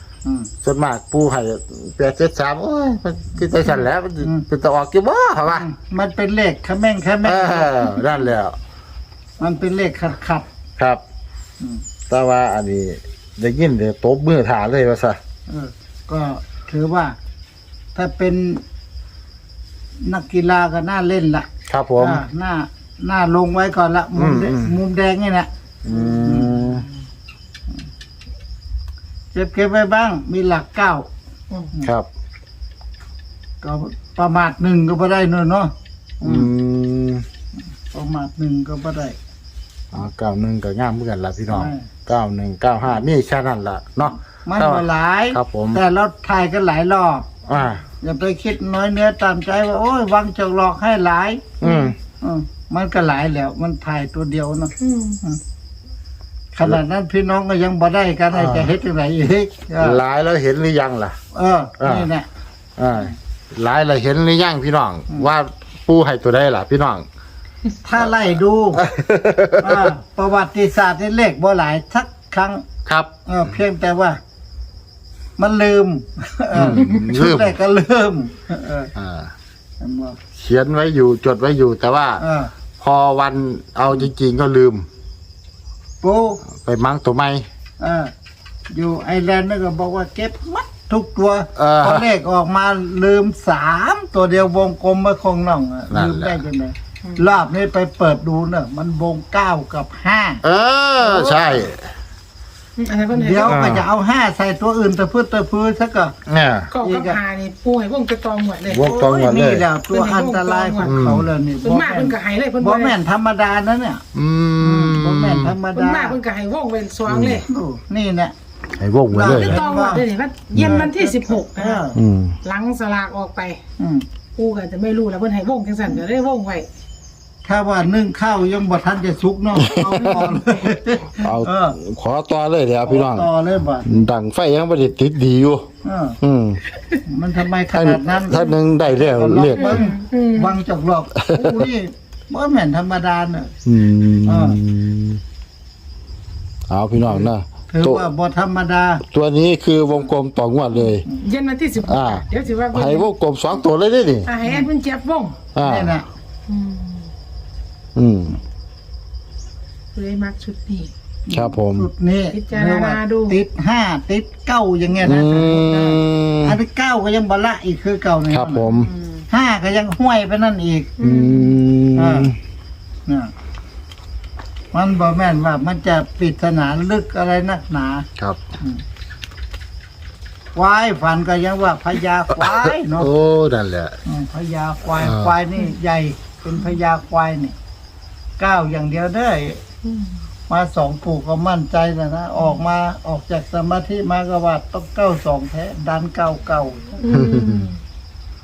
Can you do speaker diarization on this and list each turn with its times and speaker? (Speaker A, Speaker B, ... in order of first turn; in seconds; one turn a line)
Speaker A: 0.2-0.5
Speaker B: 0.6-5.7
Speaker A: 5.5-8.0
Speaker B: 7.2-8.6
Speaker A: 9.4-10.5
Speaker B: 12.1-15.2
Speaker A: 15.5-17.2
Speaker A: 17.9-18.6
Speaker A: 20.0-26.6
Speaker B: 21.7-22.2
Speaker B: 24.2-24.8
Speaker B: 25.9-26.9
Speaker A: 29.3-31.1
Speaker A: 33.6-36.5
Speaker B: 36.2-37.3
Speaker A: 37.9-39.2
Speaker B: 39.9-45.8
Speaker A: 41.5-41.9
Speaker A: 44.4-47.4
Speaker B: 47.5-47.8
Speaker A: 48.0-51.6
Speaker B: 51.6-52.0
Speaker C: 51.6-51.9
Speaker A: 52.2-55.4
Speaker C: 54.8-55.2
Speaker A: 56.5-60.0
Speaker B: 58.3-58.8
Speaker B: 59.8-61.2
Speaker A: 61.3-62.3
Speaker B: 61.8-62.1
Speaker B: 62.8-67.1
Speaker A: 67.8-68.8
Speaker B: 68.8-69.9
Speaker A: 69.6-72.7
Speaker A: 73.2-74.2
Speaker A: 75.4-78.9
Speaker B: 76.5-77.5
Speaker B: 79.0-79.3
Speaker A: 79.8-80.2
Speaker B: 80.3-82.2
Speaker A: 82.2-82.5
Speaker B: 82.8-84.9
Speaker A: 86.0-86.4
Speaker B: 86.5-87.5
Speaker A: 87.8-88.1
Speaker A: 88.7-100.4
Speaker B: 91.6-92.1
Speaker B: 95.9-96.4
Speaker B: 100.4-101.9
Speaker A: 101.0-101.7
Speaker C: 102.8-103.6
Speaker A: 103.1-106.2
Speaker B: 103.5-103.9
Speaker B: 106.3-106.7
Speaker C: 106.7-109.4
Speaker A: 106.8-107.2
Speaker B: 108.7-109.7
Speaker A: 108.8-114.0
Speaker C: 109.9-111.0
Speaker B: 110.8-111.3
Speaker C: 111.6-113.0
Speaker B: 114.1-115.5
Speaker A: 114.6-116.2
Speaker C: 115.7-117.5
Speaker B: 117.1-117.5
Speaker A: 117.5-118.3
Speaker B: 118.8-119.6
Speaker A: 119.1-120.0
Speaker C: 119.2-121.9
Speaker B: 120.5-120.8
Speaker A: 120.6-122.0
Speaker B: 121.9-122.4
Speaker C: 122.4-123.6
Speaker A: 123.8-124.0
Speaker C: 124.4-126.7
Speaker A: 127.4-131.8
Speaker B: 129.6-130.3
Speaker C: 130.0-130.3
Speaker B: 131.2-133.3
Speaker A: 132.8-134.1
Speaker B: 133.8-135.7
Speaker A: 135.8-136.2
Speaker B: 136.2-136.6
Speaker A: 137.1-143.5
Speaker B: 137.7-139.8
Speaker C: 139.6-140.6
Speaker B: 141.2-141.7
Speaker B: 143.7-145.2
Speaker A: 144.3-144.6
Speaker B: 146.7-148.0
Speaker A: 147.0-149.0
Speaker B: 149.1-151.1
Speaker C: 151.2-153.1
Speaker B: 151.8-154.3
Speaker C: 154.3-155.4
Speaker B: 155.6-156.0
Speaker A: 155.6-156.1
Speaker C: 156.5-157.1
Speaker B: 158.0-158.4
Speaker C: 159.9-160.9
Speaker A: 161.3-168.7
Speaker B: 161.3-161.9
Speaker C: 162.3-163.4
Speaker B: 165.0-166.6
Speaker B: 168.3-168.9
Speaker C: 168.7-169.2
Speaker A: 169.3-170.9
Speaker C: 171.0-171.6
Speaker B: 171.0-172.4
Speaker A: 172.0-172.3
Speaker A: 173.1-173.3
Speaker A: 174.7-178.1
Speaker A: 180.5-183.1
Speaker B: 182.3-184.0
Speaker A: 184.1-187.6
Speaker B: 185.0-185.3
Speaker A: 188.4-189.6
Speaker C: 189.9-190.2
Speaker A: 190.5-196.8
Speaker C: 197.0-197.8
Speaker B: 197.1-197.7